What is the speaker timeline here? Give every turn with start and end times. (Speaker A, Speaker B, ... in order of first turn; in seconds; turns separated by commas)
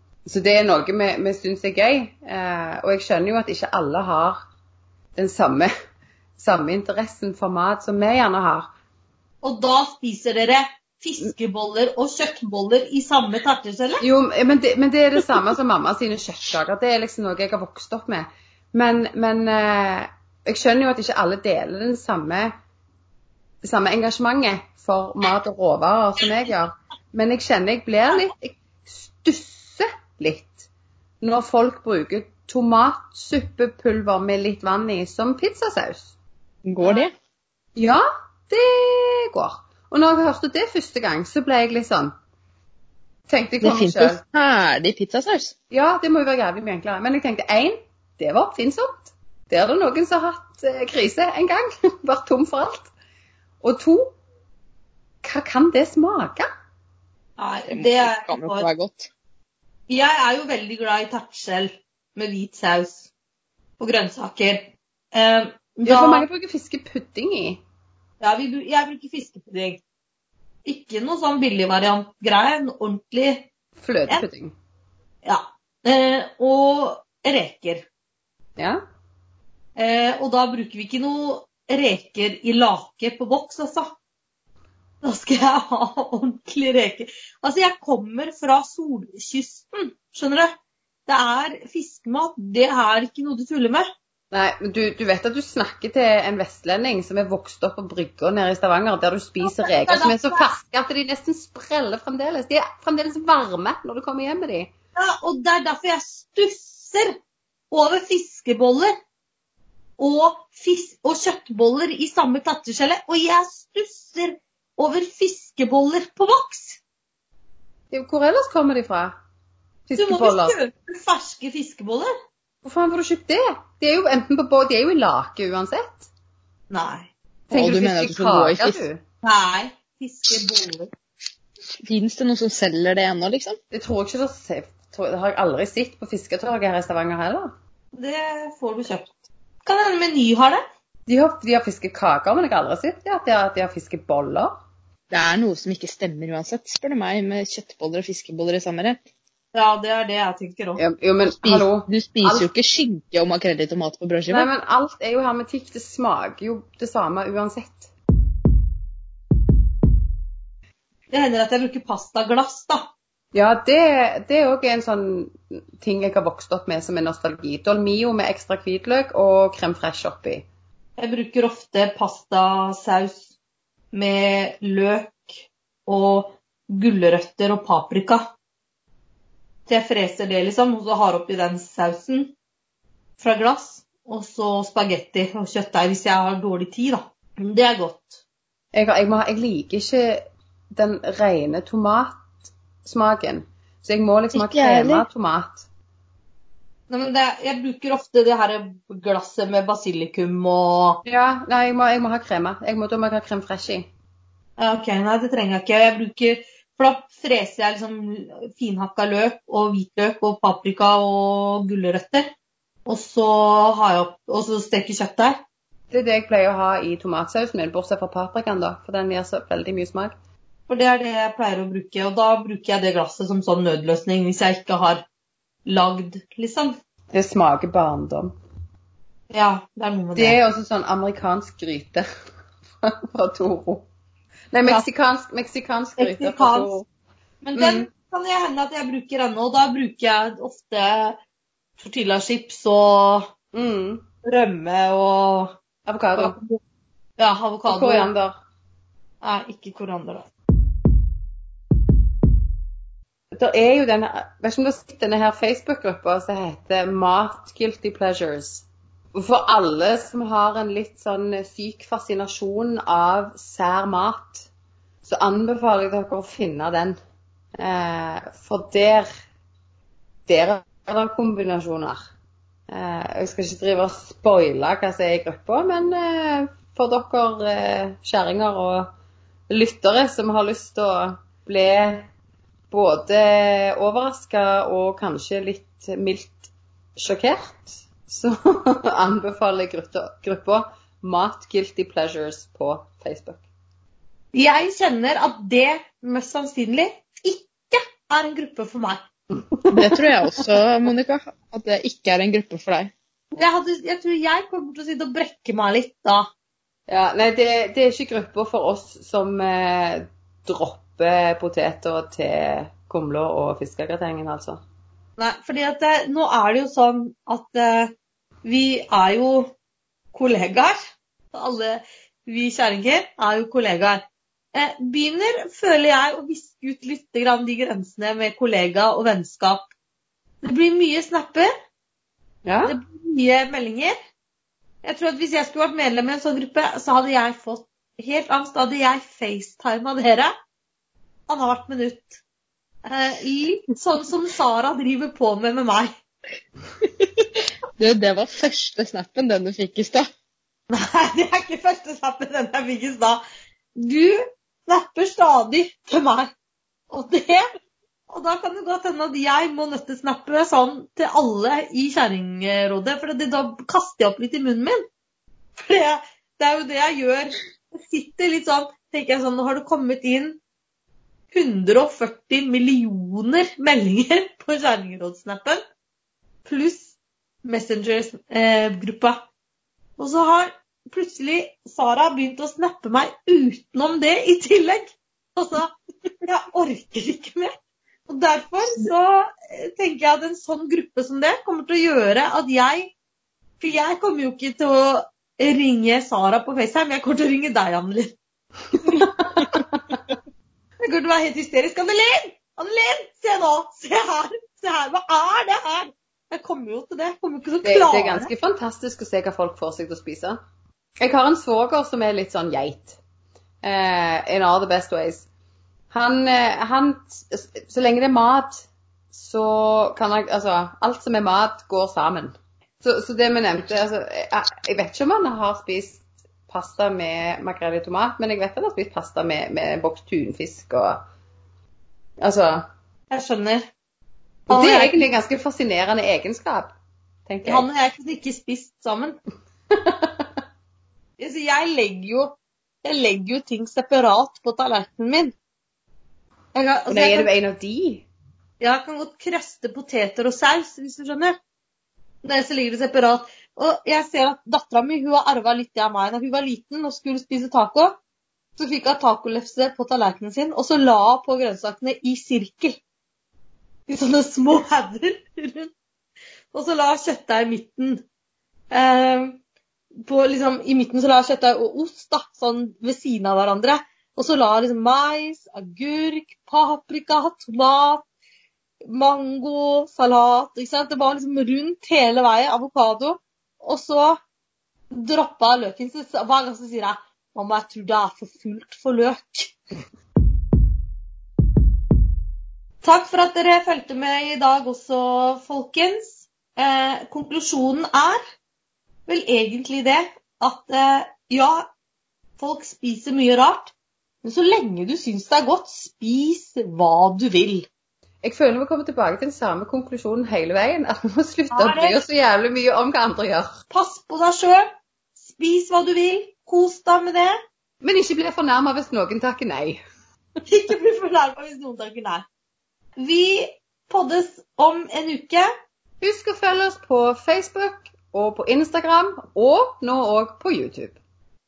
Speaker A: 0.3-4.4, Speaker A: 5.2-5.7, Speaker A: 6.4-8.7, Speaker B: 9.4-14.1, Speaker A: 14.0-22.5, Speaker A: 23.6-30.7, Speaker A: 31.2-36.1, Speaker C: 36.7-37.1, Speaker A: 37.8-42.1, Speaker A: 43.3-44.2, Speaker C: 43.6-45.5, Speaker A: 45.7-52.9, Speaker A: 53.6-54.1, Speaker A: 55.2-56.5, Speaker B: 57.4-58.7, Speaker C: 57.7-59.1, Speaker B: 59.9-63.1, Speaker B: 63.8-66.2, Speaker A: 65.9-67.6, Speaker B: 68.2-69.8, Speaker B: 70.7-73.5, Speaker A: 73.8-74.5, Speaker B: 75.2-77.9, Speaker B: 79.8-84.0, Speaker B: 85.0-90.5, Speaker B: 91.1-93.9, Speaker A: 94.3-104.7, Speaker B: 99.4-100.5, Speaker B: 105.0-107.2, Speaker B: 107.7-108.9, Speaker B: 110.0-116.8, Speaker A: 117.9-119.1, Speaker A: 119.9-120.6, Speaker B: 120.0-122.1, Speaker A: 122.6-126.1, Speaker B: 126.7-127.1, Speaker A: 127.5-129.0, Speaker C: 127.5-128.8, Speaker B: 129.2-130.9, Speaker C: 131.8-133.6, Speaker A: 133.7-137.5, Speaker B: 137.9-140.6, Speaker A: 141.1-144.5, Speaker C: 145.1-149.0, Speaker B: 149.5-150.8, Speaker A: 150.8-152.5, Speaker C: 151.4-154.5, Speaker A: 154.3-157.9, Speaker B: 161.1-162.9, Speaker A: 163.3-170.4, Speaker B: 171.0-173.3, Speaker B: 173.9-178.3, Speaker B: 179.7-182.3, Speaker B: 183.2-188.2, Speaker A: 188.7-192.3, Speaker A: 192.8-195.7, Speaker C: 194.3-195.1, Speaker B: 196.9-201.0, Speaker A: 201.1-203.9, Speaker B: 204.6-212.3, Speaker B: 212.9-215.4, Speaker A: 215.9-220.1, Speaker B: 220.7-225.0, Speaker B: 225.7-226.8, Speaker A: 227.1-228.3, Speaker B: 229.3-230.4, Speaker A: 230.2-232.1, Speaker A: 232.8-233.9, Speaker A: 234.5-236.9, Speaker B: 236.0-236.7, Speaker B: 237.4-241.2, Speaker A: 237.6-237.9, Speaker B: 241.8-243.3, Speaker A: 243.5-244.0, Speaker B: 244.2-245.5, Speaker A: 245.9-246.3, Speaker B: 246.2-246.6, Speaker B: 247.2-248.1, Speaker A: 247.7-248.4, Speaker B: 249.2-250.3, Speaker A: 253.3-264.5, Speaker A: 265.0-267.0, Speaker A: 267.6-269.1, Speaker A: 270.3-272.0, Speaker A: 272.7-278.9, Speaker A: 279.5-282.1, Speaker A: 282.7-293.4, Speaker B: 294.3-299.0, Speaker A: 299.3-300.1, Speaker C: 299.7-302.9, Speaker B: 303.3-306.3, Speaker A: 306.9-314.6, Speaker B: 315.2-317.9, Speaker B: 318.4-319.5, Speaker B: 320.1-324.0, Speaker B: 324.5-329.7, Speaker B: 330.4-331.5, Speaker A: 332.4-332.8, Speaker B: 332.6-333.9, Speaker B: 334.8-340.3, Speaker B: 341.3-342.2, Speaker B: 342.9-345.9, Speaker C: 346.8-350.1, Speaker B: 350.7-353.2, Speaker B: 353.8-356.3, Speaker B: 356.9-357.4, Speaker B: 358.1-364.8, Speaker B: 365.6-370.4, Speaker B: 371.3-375.6, Speaker B: 376.4-379.2, Speaker B: 380.0-387.5, Speaker B: 388.1-392.9, Speaker B: 393.6-398.1, Speaker A: 398.8-400.0, Speaker B: 400.8-408.3, Speaker A: 407.6-410.4, Speaker A: 411.0-413.0, Speaker A: 413.6-415.3, Speaker A: 415.9-431.0, Speaker A: 432.2-432.7, Speaker B: 433.1-433.7, Speaker A: 434.5-436.8, Speaker B: 434.5-435.0, Speaker A: 437.3-437.7, Speaker B: 437.4-439.2, Speaker A: 439.7-440.1, Speaker B: 441.2-442.3, Speaker B: 442.8-445.3, Speaker B: 446.5-447.3, Speaker A: 446.9-448.1, Speaker B: 448.6-451.4, Speaker B: 452.2-458.0, Speaker B: 458.6-462.8, Speaker B: 463.9-465.7, Speaker B: 466.5-468.0, Speaker B: 468.7-469.4, Speaker B: 470.1-478.1, Speaker B: 478.9-484.2, Speaker B: 484.9-489.6, Speaker B: 492.8-498.2, Speaker B: 499.1-501.7, Speaker B: 502.4-503.7, Speaker B: 504.2-507.7, Speaker A: 508.2-513.6, Speaker B: 511.5-512.0, Speaker B: 513.7-514.7, Speaker B: 515.2-517.4, Speaker A: 517.8-519.8, Speaker B: 520.5-522.2, Speaker B: 523.0-525.5, Speaker A: 526.0-531.0